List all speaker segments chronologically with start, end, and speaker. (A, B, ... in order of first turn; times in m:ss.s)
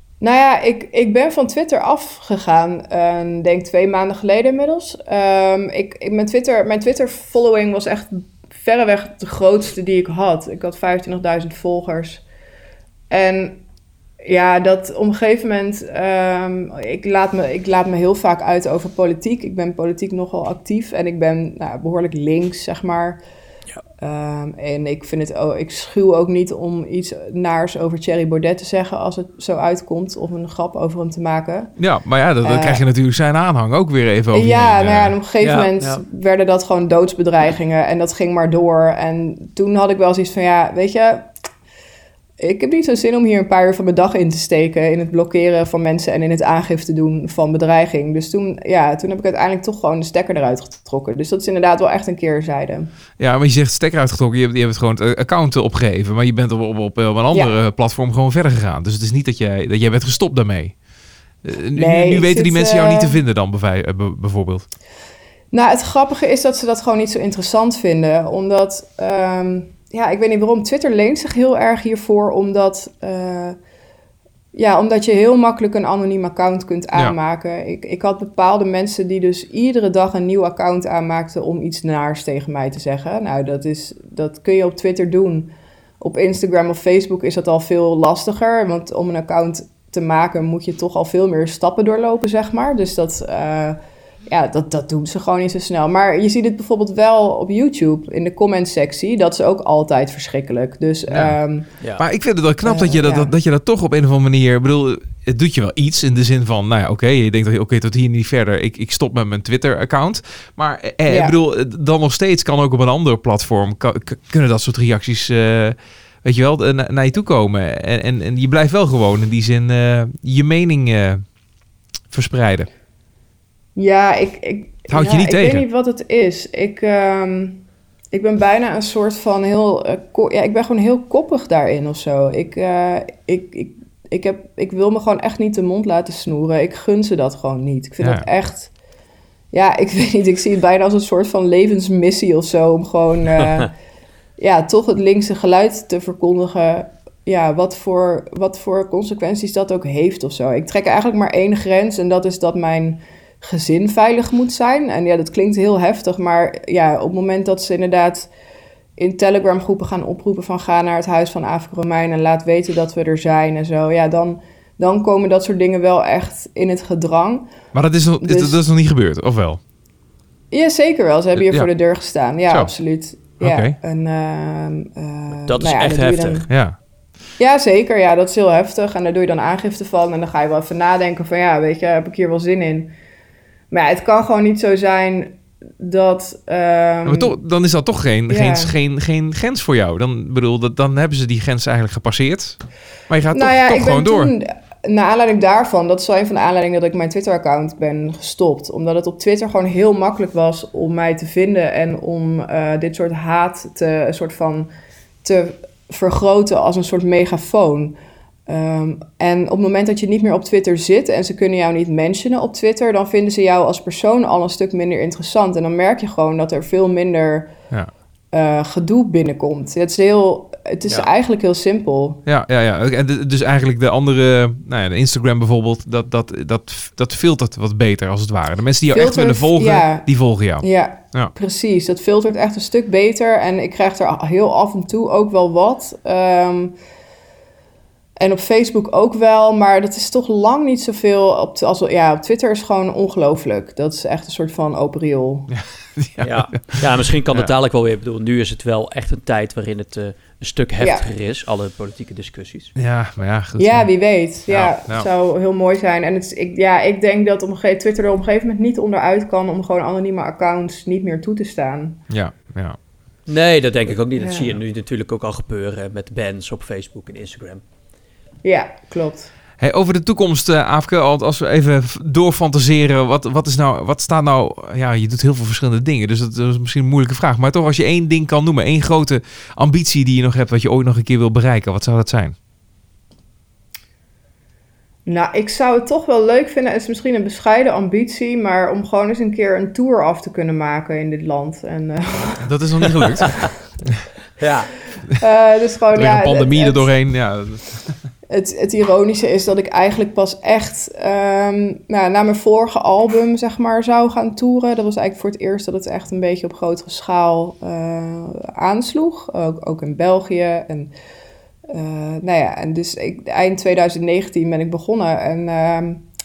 0:00.2-0:12.2 A
0:13.1-0:13.6 A
0:14.2-0:23.2 A
0:24.0-0:31.7 A
0:31.8-0:35.1 B
0:32.4-0:32.9 A
0:34.3-0:41.3 A
0:35.4-0:36.0 C
0:42.4-0:52.9 A
0:53.2-1:00.8 B
1:01.4-1:04.7 B
1:01.7-1:03.2 A
1:05.5-1:13.6 A
1:14.5-1:41.7 A
1:41.1-1:41.4 B
1:42.0-2:01.3 B
1:42.6-1:43.4 A
1:51.1-1:51.4 A
2:02.1-2:02.7 B
2:03.7-2:18.7 A
2:04.9-2:05.6 B
2:19.5-2:23.7 A
2:24.4-2:38.3 A
2:39.0-2:47.5 A
2:47.7-2:49.6 B
2:48.2-2:48.6 A
2:50.5-2:56.5 A
2:51.4-2:51.7 B
2:53.4-2:53.8 B
2:55.5-2:56.4 C
2:56.5-2:56.8 B
2:57.4-3:02.9 A
3:03.7-3:07.4 A
3:07.0-3:14.3 B
3:08.3-3:08.7 A
3:13.3-3:24.7 A
3:25.2-3:37.5 A
3:38.3-3:42.2 A
3:42.2-3:51.3 B
3:48.9-3:56.8 A
3:58.2-4:05.5 A
4:05.5-4:07.5 B
4:06.2-4:12.7 C
4:10.8-4:11.1 A
4:12.8-4:13.9 B
4:13.6-4:22.0 A
4:14.5-4:15.1 B
4:22.1-4:22.8 B
4:23.3-4:27.6 C
4:24.2-4:24.6 A
4:28.4-4:29.3 A
4:29.6-4:42.4 B
4:45.0-4:53.2 A
4:52.4-4:53.4 B
4:54.4-4:54.8 C
4:55.2-4:56.9 A
4:55.9-4:58.0 B
4:58.3-5:10.9 A
5:11.7-5:16.0 A